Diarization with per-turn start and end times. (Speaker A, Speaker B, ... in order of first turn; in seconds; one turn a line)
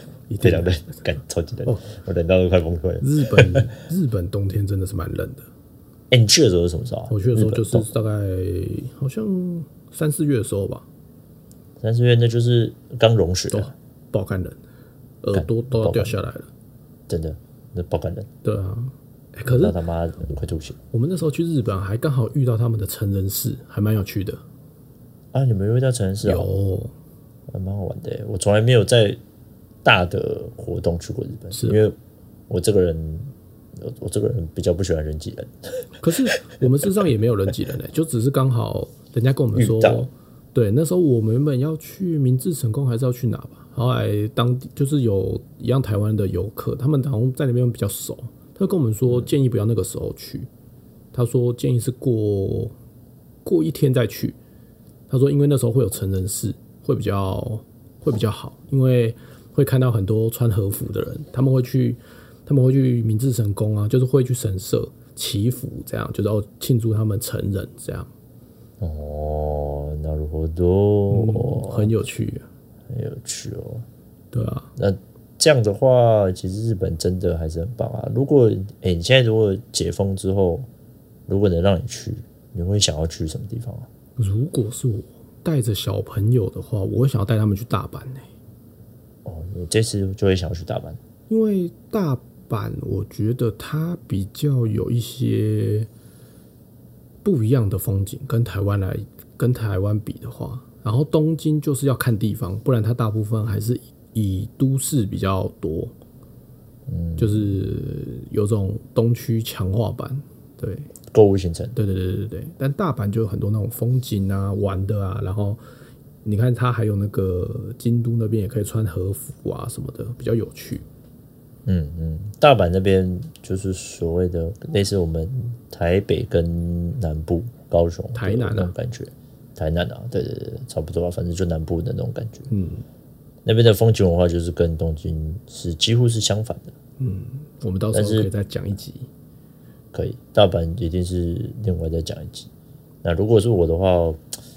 Speaker A: 0.3-0.8
Speaker B: 0.4-3.7
Speaker A: 3.0-5.5
Speaker B: 6.1-7.9
Speaker A: 7.1-10.8
Speaker B: 11.8-13.7
Speaker A: 13.5-14.6
Speaker A: 15.2-16.5
Speaker B: 15.3-16.2
Speaker B: 17.1-18.3
Speaker A: 18.4-19.8
Speaker B: 19.4-20.8
Speaker A: 20.9-24.4
Speaker B: 25.3-26.5
Speaker A: 26.2-26.9
Speaker B: 27.5-29.2
Speaker B: 29.8-32.0
Speaker A: 31.5-31.8
Speaker B: 32.5-36.6
Speaker A: 36.0-50.5
Speaker B: 39.5-40.1
Speaker A: 51.1-52.8
Speaker A: 53.4-54.4
Speaker A: 55.1-68.1
Speaker B: 68.8-71.9
Speaker A: 71.1-72.5
Speaker B: 72.9-73.8
Speaker A: 74.3-74.7
Speaker B: 74.8-80.7
Speaker B: 81.3-83.9
Speaker A: 84.2-88.3
Speaker B: 89.2-91.0
Speaker A: 91.3-95.9
Speaker A: 97.2-105.9
Speaker B: 106.9-107.6
Speaker A: 107.2-110.9
Speaker B: 111.1-111.7
Speaker A: 111.7-115.6
Speaker A: 116.2-120.8
Speaker B: 121.7-132.5
Speaker A: 128.1-128.7
Speaker A: 132.5-132.8
Speaker B: 133.4-136.7
Speaker A: 137.0-139.1
Speaker B: 137.9-138.3
Speaker B: 139.9-142.5
Speaker B: 143.0-144.2